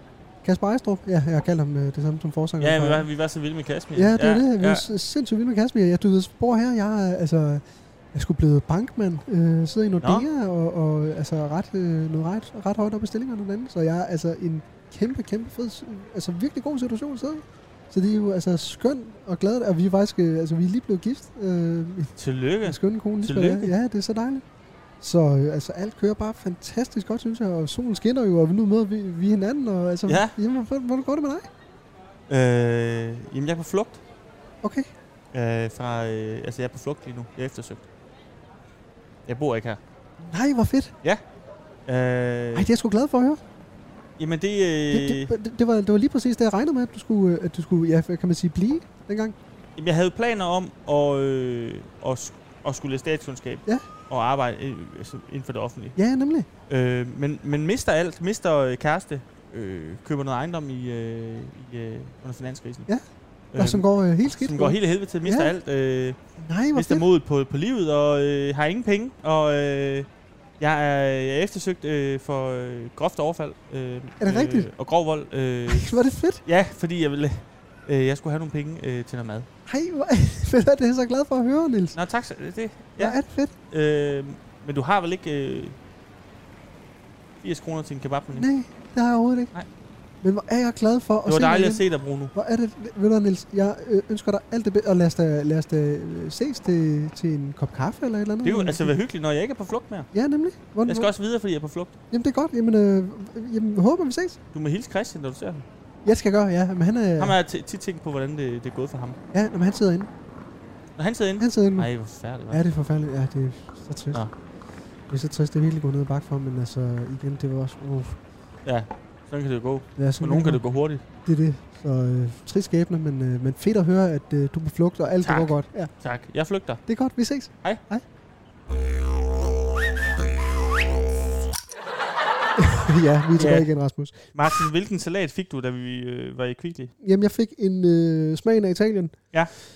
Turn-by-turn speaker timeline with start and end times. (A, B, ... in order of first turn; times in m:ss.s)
0:00.4-0:03.1 A
0:02.6-0:04.8 B
0:04.0-0:07.6 A
0:08.1-0:24.4 A
0:10.0-0:10.3 B
0:22.2-0:23.7 B
0:25.0-0:31.5 A
0:30.1-0:30.4 B
0:32.3-0:34.0 B
0:34.6-0:34.9 A
0:35.3-0:37.9 B
0:39.3-0:39.8 B
0:40.2-0:40.9 A
0:41.9-0:42.7 B
0:42.6-0:43.4 A
0:44.2-0:45.3 B
0:44.9-0:49.4 A
0:49.8-0:56.0 B
0:56.0-0:56.5 A
0:56.7-1:02.9 B
1:03.5-1:06.2 B
1:03.6-1:05.5 A
1:06.4-1:07.0 A
1:06.7-1:10.1 B
1:10.6-1:15.9 B
1:14.2-1:14.7 A
1:15.7-1:16.4 A
1:16.4-1:19.5 B
1:19.7-1:22.0 A
1:22.0-1:25.8 B
1:23.0-1:23.5 A
1:27.4-1:28.5 B
1:28.4-1:29.5 A
1:30.2-1:39.0 A
1:31.3-1:32.3 B
1:38.4-1:40.1 B
1:40.1-1:41.1 A
1:40.8-1:42.0 B
1:42.1-1:44.4 A
1:44.5-1:45.7 B
1:46.0-1:47.4 A
1:47.2-1:49.2 B
1:49.3-1:50.1 A
1:51.0-1:52.6 B
1:51.4-1:51.9 A
1:52.5-1:54.2 A
1:55.1-1:58.2 A
1:58.6-2:01.0 B
2:00.0-2:00.6 A
2:01.2-2:05.9 A
2:05.2-2:06.8 B
2:06.9-2:08.0 A
2:12.6-2:14.6 A
2:13.4-2:13.7 B
2:14.3-2:16.9 B
2:17.0-2:19.2 A